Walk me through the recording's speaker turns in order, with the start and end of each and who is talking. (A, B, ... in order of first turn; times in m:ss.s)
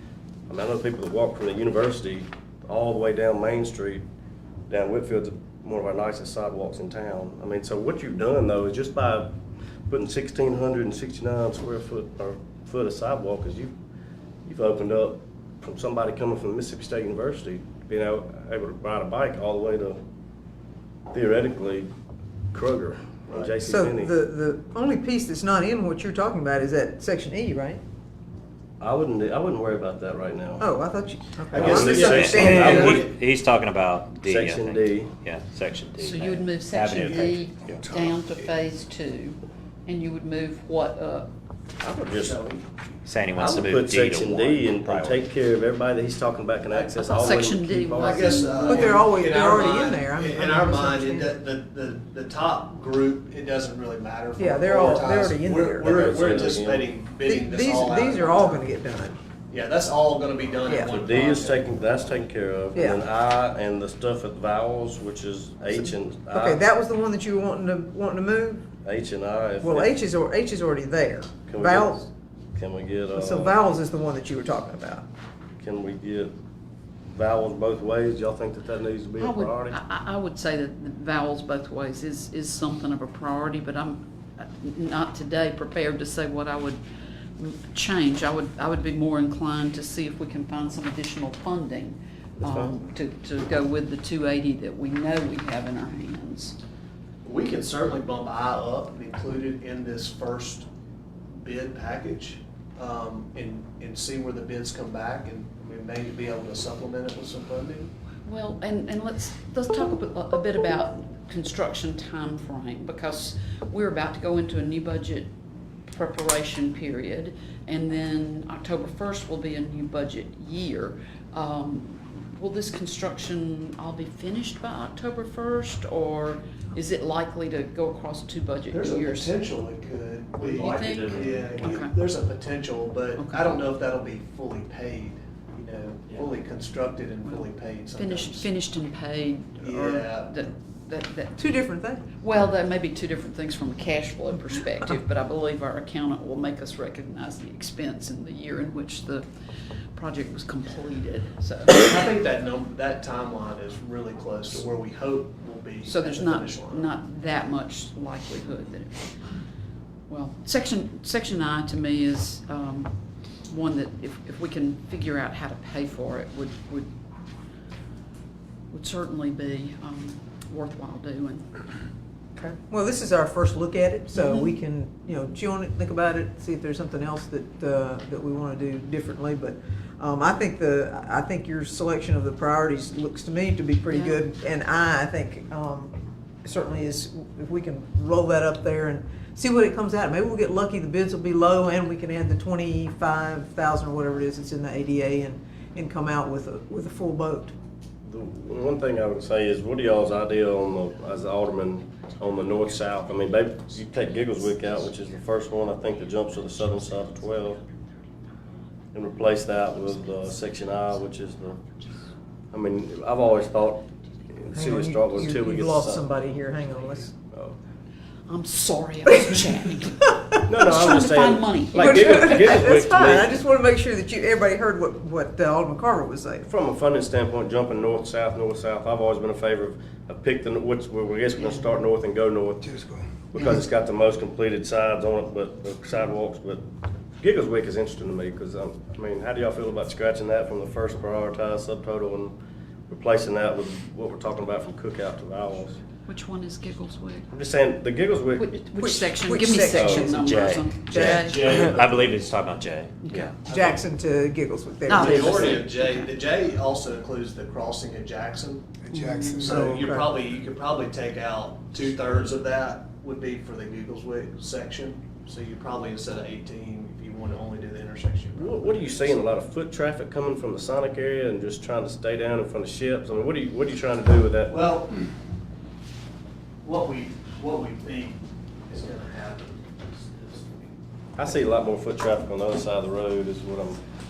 0:00.5-0:04.0 A
0:04.7-0:09.3 A
0:09.9-0:13.7 A
0:14.4-0:20.0 A
0:21.1-0:21.9 A
0:22.5-0:24.1 A
0:23.6-0:27.8 B
0:28.8-0:30.7 A
0:30.6-0:33.1 B
0:31.5-0:33.1 C
0:31.5-0:33.1 A
0:31.6-0:38.0 D
0:34.2-0:35.1 A
0:36.0-0:41.3 E
0:42.0-0:42.4 A
0:42.0-0:42.6 C
0:43.0-0:45.2 D
0:43.3-0:48.4 A
0:46.7-0:47.2 C
0:47.0-0:49.2 E
0:48.0-0:58.6 C
0:48.6-0:51.3 B
0:54.4-0:56.0 B
0:55.8-0:56.9 A
0:57.2-0:59.2 B
0:59.5-1:01.6 C
1:00.7-1:00.9 B
1:00.8-1:06.6 A
1:02.7-1:03.0 B
1:06.3-1:08.6 B
1:08.8-1:09.9 A
1:09.6-1:12.1 B
1:11.5-1:13.5 A
1:13.1-1:15.0 B
1:15.6-1:16.4 A
1:17.1-1:19.8 A
1:19.2-1:26.8 E
1:27.4-1:36.6 E
1:32.4-1:32.7 A
1:37.2-1:40.7 C
1:41.3-1:47.9 C
1:48.2-1:55.3 E
1:55.9-2:09.3 E
2:08.7-2:18.5 C
2:10.4-2:11.7 D
2:10.5-2:11.9 E
2:13.2-2:13.7 E
2:17.2-2:21.5 E
2:19.6-2:20.4 C
2:21.4-2:22.0 B
2:22.0-2:29.3 E
2:29.9-2:31.9 E
2:31.7-2:36.9 C
2:35.8-2:39.2 E
2:40.1-2:43.0 E
2:43.5-2:46.9 E
2:48.7-2:51.6 E
2:52.4-3:05.9 B
3:03.9-3:04.2 E
3:06.4-3:17.5 B
3:18.0-3:27.6 A
3:28.9-3:31.6 A
3:32.5-3:36.0 A
3:34.5-3:37.1 B
3:37.2-3:37.6 A
3:38.3-3:42.7 E
3:40.4-3:43.4 A
3:41.8-3:46.5 B
3:46.4-3:56.6 A
3:57.2-4:02.4 A
4:02.9-4:05.8 A
4:06.0-4:07.3 E
4:07.3-4:08.5 A
4:08.3-4:11.7 E
4:08.8-4:10.3 B
4:09.6-4:13.3 D
4:09.8-4:10.0 A
4:10.9-4:11.3 B
4:11.2-4:11.9 A
4:13.0-4:13.4 E
4:13.4-4:15.6 B
4:13.5-4:13.7 C
4:14.8-4:16.2 E
4:14.9-4:18.8 C
4:18.9-4:20.1 B
4:19.0-4:19.4 E
4:19.3-4:29.2 C
4:28.4-4:34.5 A
4:34.5-4:35.0 C
4:36.6-4:40.7 C
4:41.2-4:43.8 A